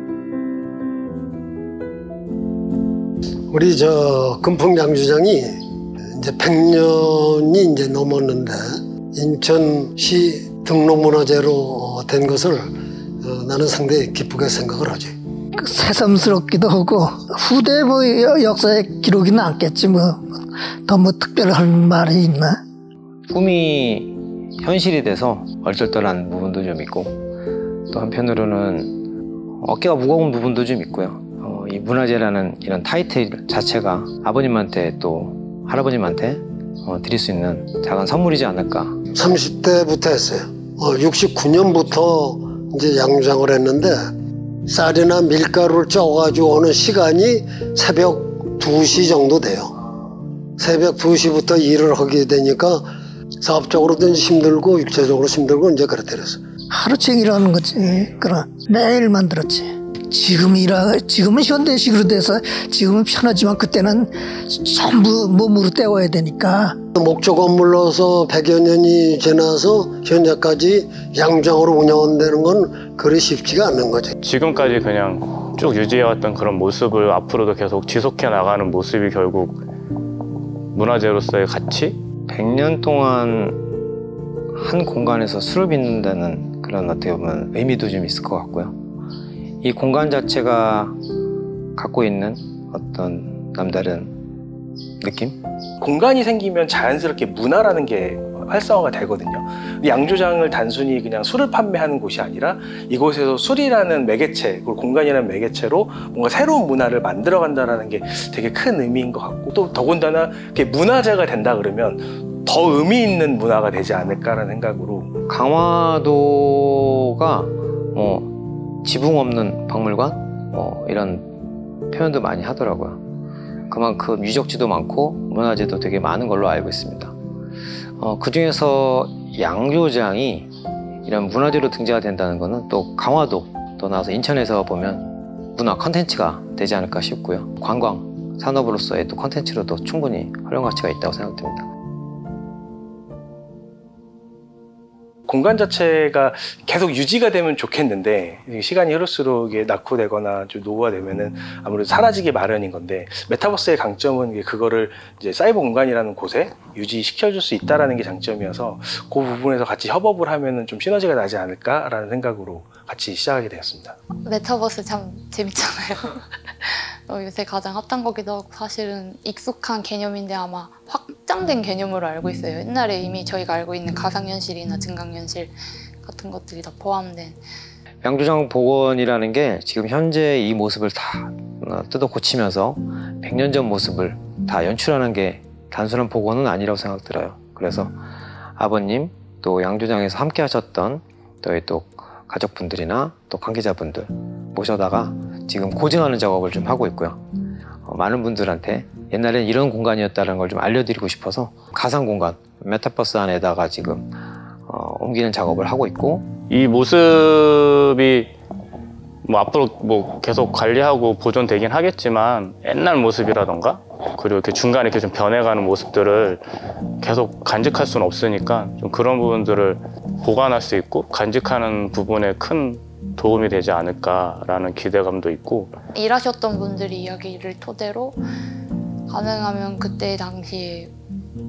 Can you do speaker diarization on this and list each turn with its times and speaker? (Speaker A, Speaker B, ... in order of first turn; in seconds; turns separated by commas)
Speaker A: 3.5-5.6, Speaker A: 6.1-15.1, Speaker B: 15.6-20.2, Speaker B: 20.9-22.6, Speaker C: 23.3-27.2, Speaker C: 27.9-39.0, Speaker A: 39.1-44.0, Speaker A: 44.7-49.8, Speaker A: 50.6-52.9, Speaker A: 53.4-56.4, Speaker B: 56.7-66.8, Speaker A: 67.0-74.1, Speaker D: 74.2-79.6, Speaker D: 80.7-82.0, Speaker C: 82.3-83.6, Speaker C: 84.5-88.8, Speaker C: 89.6-91.0, Speaker C: 91.8-94.2, Speaker C: 95.0-95.4, Speaker E: 95.8-115.1, Speaker C: 115.3-121.4, Speaker C: 121.9-123.0, Speaker C: 123.7-127.1, Speaker C: 128.0-130.5, Speaker C: 131.0-135.1, Speaker C: 135.6-141.7, Speaker E: 145.3-164.0, Speaker F: 164.2-177.4, Speaker C: 178.0-187.9, Speaker C: 188.6-197.2, Speaker C: 197.8-204.2, Speaker C: 204.7-206.3, Speaker D: 206.5-208.3, Speaker D: 209.2-216.4, Speaker D: 217.0-225.8, Speaker F: 225.9-228.2, Speaker F: 229.1-230.9